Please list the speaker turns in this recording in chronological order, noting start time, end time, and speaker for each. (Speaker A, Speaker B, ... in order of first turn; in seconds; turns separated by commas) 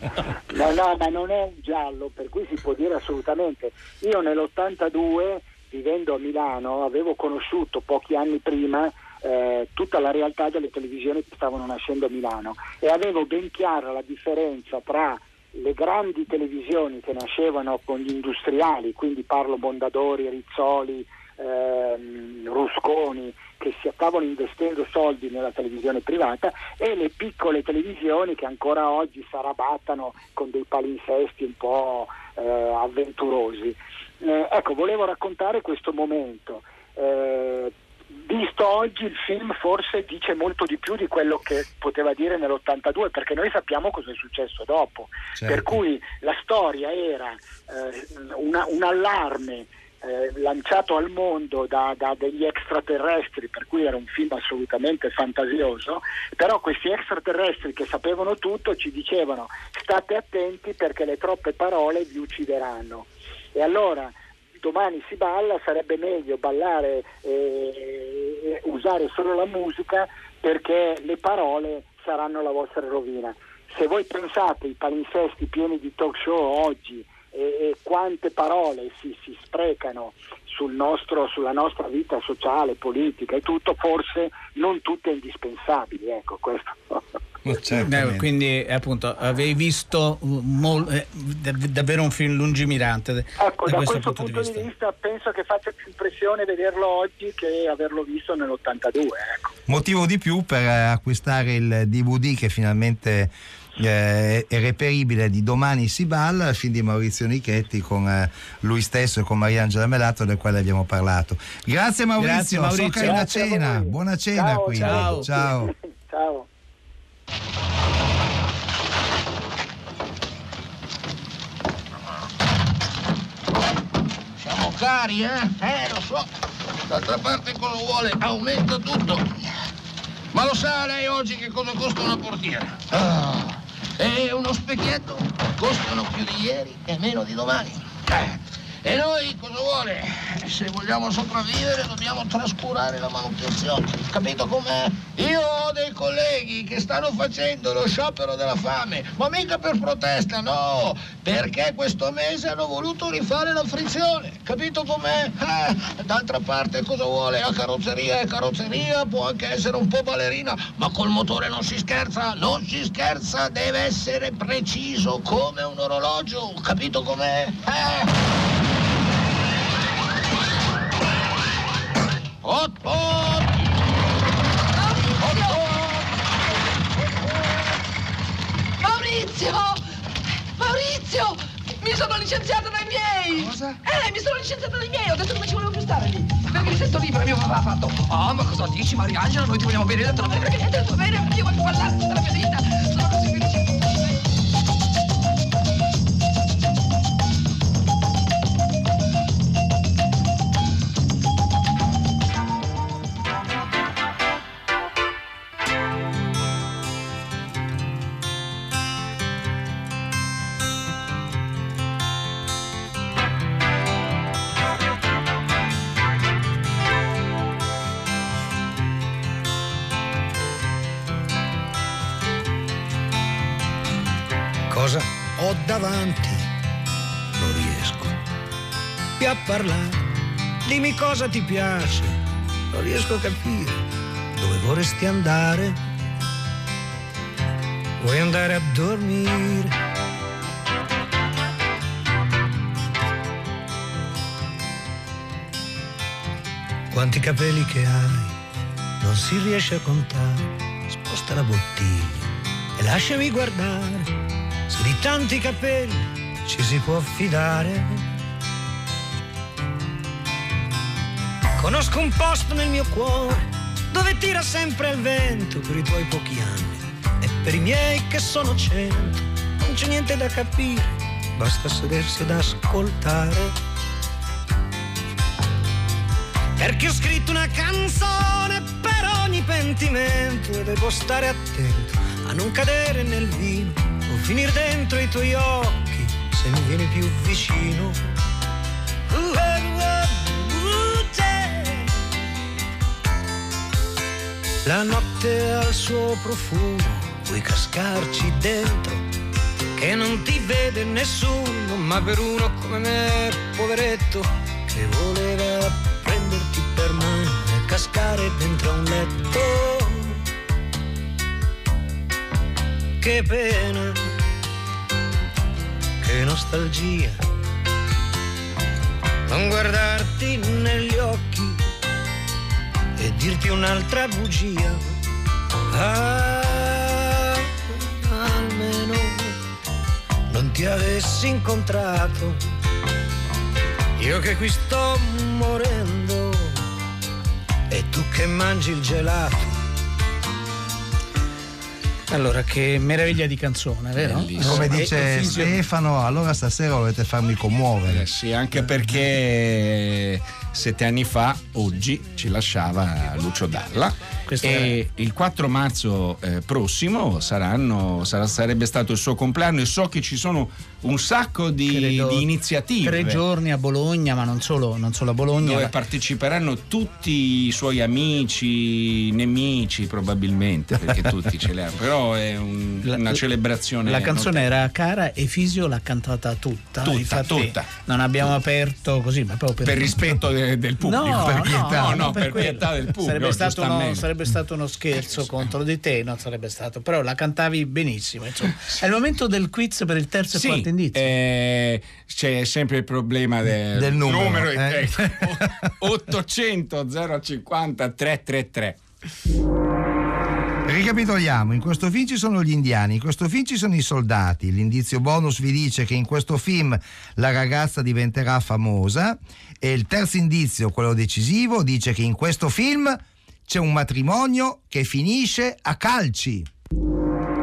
Speaker A: 0.5-37.7, Speaker A: 38.2-87.0, Speaker B: 45.4-45.8, Speaker B: 87.5-88.3, Speaker C: 87.8-94.7, Speaker A: 93.4-99.5, Speaker B: 99.7-115.7, Speaker C: 112.2-113.3, Speaker A: 112.9-116.5, Speaker C: 114.8-115.3, Speaker D: 124.4-126.3, Speaker D: 126.9-129.4, Speaker D: 130.3-168.1, Speaker D: 172.4-173.5, Speaker E: 174.7-175.8, Speaker D: 175.2-175.9, Speaker E: 178.8-179.8, Speaker E: 180.6-194.1, Speaker F: 224.7-226.5, Speaker F: 227.4-228.2, Speaker F: 229.2-230.0, Speaker F: 230.7-232.2, Speaker F: 232.7-233.8, Speaker F: 234.3-235.8, Speaker F: 238.0-239.7, Speaker F: 246.9-248.3, Speaker F: 249.0-254.1, Speaker F: 254.7-258.0, Speaker F: 261.6-273.5, Speaker F: 276.6-288.0, Speaker F: 289.1-291.9, Speaker F: 294.6-299.0, Speaker F: 299.8-310.2, Speaker F: 313.0-314.0, Speaker F: 316.0-317.2, Speaker F: 319.3-321.6, Speaker F: 323.0-324.8, Speaker F: 325.7-329.4, Speaker F: 330.3-332.4, Speaker F: 334.0-336.6, Speaker F: 337.7-339.5, Speaker C: 342.1-345.6, Speaker G: 344.0-345.5, Speaker B: 344.4-348.1, Speaker G: 347.9-363.2, Speaker C: 354.3-354.8, Speaker C: 361.7-362.3, Speaker C: 362.8-365.7, Speaker G: 365.4-374.5, Speaker C: 372.9-373.2, Speaker C: 373.9-380.1, Speaker G: 376.8-377.7, Speaker G: 379.6-384.1, Speaker C: 380.9-391.1, Speaker B: 381.1-382.1, Speaker G: 390.4-398.8, Speaker B: 393.7-395.4, Speaker B: 400.7-416.5